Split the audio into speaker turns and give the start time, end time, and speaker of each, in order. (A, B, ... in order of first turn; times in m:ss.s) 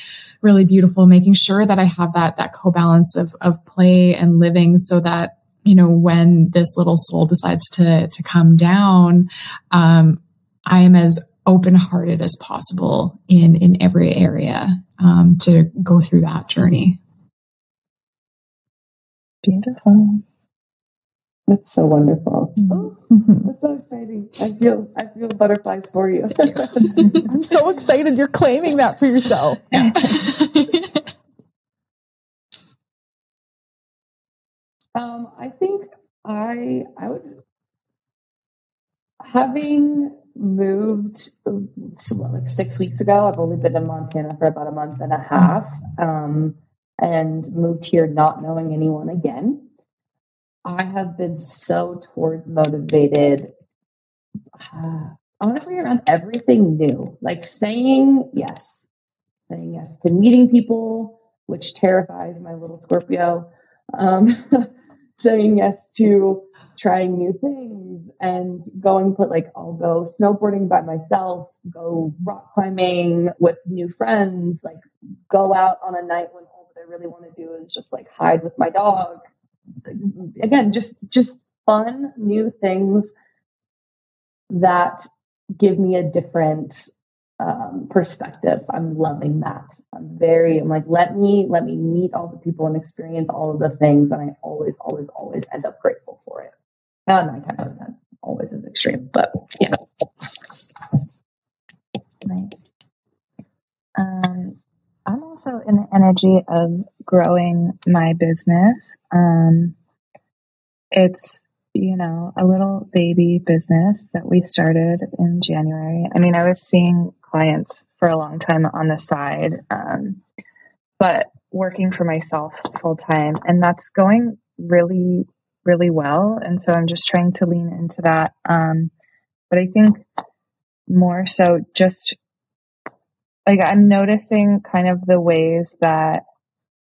0:00.4-0:17.0 A
0:19.4-0:20.2 B
0:21.5-0:27.2 C
0:23.1-0:23.5 D
0:27.2-0:30.0 D
0:29.7-0:30.0 B
0:30.0-0:31.0 A
0:35.0-0:37.4 C
0:39.2-0:49.6 C
0:50.6-0:53.5 C
0:54.6-0:58.8 C
0:59.5-1:19.2 C
1:19.9-1:23.1 C
1:24.5-1:26.9 C
1:27.4-1:36.5 C
1:37.1-1:40.3 C
1:42.2-1:42.5 B
1:44.0-1:49.8 B
1:50.9-2:00.2 B
2:01.0-2:08.9 B
2:09.5-2:10.0 B
2:10.9-2:12.2 B
2:13.5-2:16.2 B